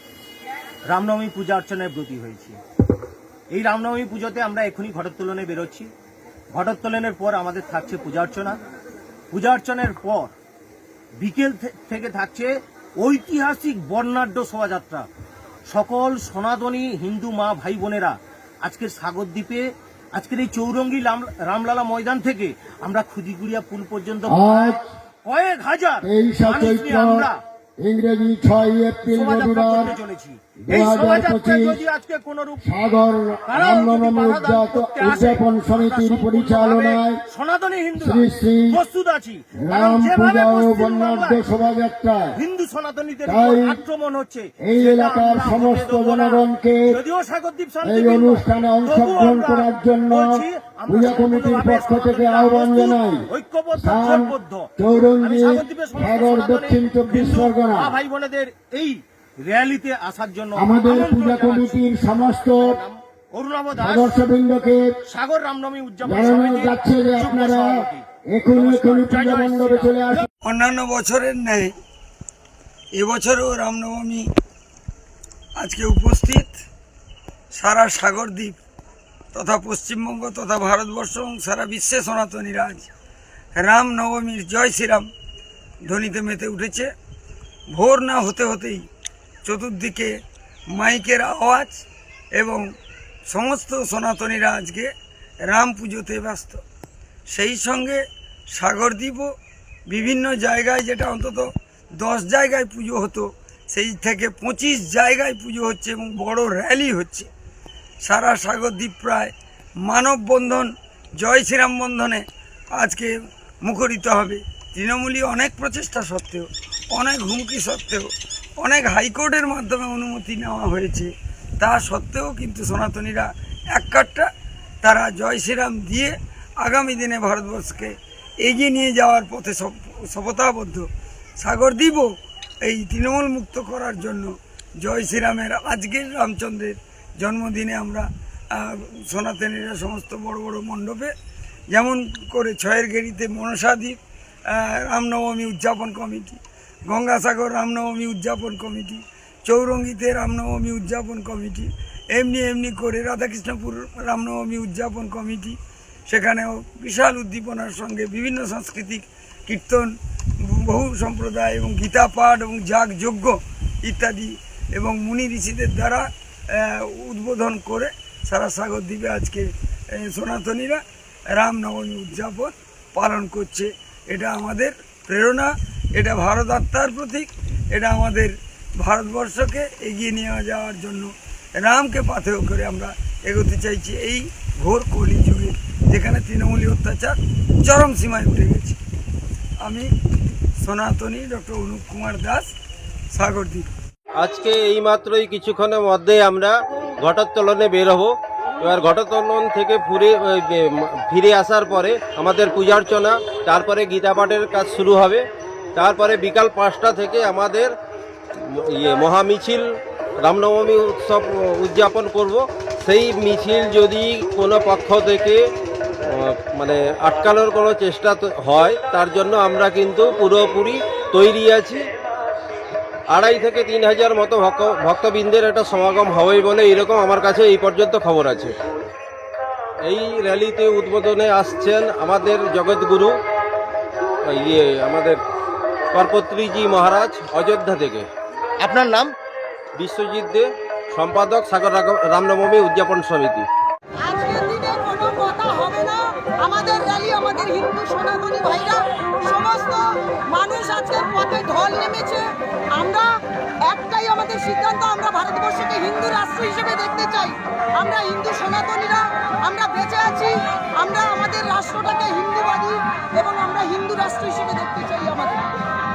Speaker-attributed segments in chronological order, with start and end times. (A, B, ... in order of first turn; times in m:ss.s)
0:00.9-0:02.6 A
0:03.5-0:05.9 A
0:06.5-0:08.6 A
0:09.3-0:10.3 A
0:11.2-0:15.1 A
0:15.7-0:27.4 A
0:24.2-0:24.8 B
0:26.0-0:27.3 B
0:27.8-0:29.9 B
0:29.1-0:32.7 A
0:30.6-0:31.8 B
0:32.6-0:37.2 B
0:33.5-0:41.4 A
0:38.0-0:38.8 B
0:39.6-0:42.4 B
0:42.3-0:54.7 A
0:43.2-0:43.8 B
0:44.6-0:47.0 B
0:47.8-0:58.0 B
0:55.2-1:04.2 A
1:00.6-1:02.8 B
1:03.8-1:05.0 B
1:05.0-1:10.3 A
1:06.0-1:10.3 B
1:10.4-1:11.7 C
1:12.9-1:14.3 C
1:15.6-1:16.6 C
1:17.5-1:18.6 C
1:19.3-1:22.9 C
1:23.6-1:25.1 C
1:25.8-1:26.9 C
1:27.7-1:28.8 C
1:29.4-1:30.1 C
1:30.7-1:31.8 C
1:32.3-1:32.6 C
1:33.3-1:34.9 C
1:35.4-1:36.6 C
1:37.3-1:38.0 C
1:38.5-1:39.3 C
1:39.9-1:41.4 C
1:42.0-1:47.3 C
1:48.0-1:49.3 C
1:49.8-1:52.2 C
1:52.7-1:53.1 C
1:53.6-1:58.1 C
1:58.6-2:04.3 C
2:04.8-2:10.9 C
2:11.4-2:12.1 C
2:12.6-2:21.1 C
2:21.7-2:24.0 C
2:24.5-2:35.6 C
2:36.1-2:39.9 C
2:40.4-2:50.8 C
2:51.4-3:08.8 C
3:09.6-3:09.9 C
3:10.6-3:12.5 C
3:13.1-3:13.7 C
3:14.2-3:25.2 D
3:25.8-3:27.7 D
3:28.5-3:29.6 D
3:30.2-3:35.4 D
3:36.0-3:41.8 D
3:43.1-3:48.5 D
3:49.8-3:53.1 D
3:54.3-3:55.2 D
3:55.9-3:58.1 D
3:58.6-3:59.1 A
3:59.8-4:03.5 D
4:04.0-4:13.1 E
4:13.6-4:25.5 E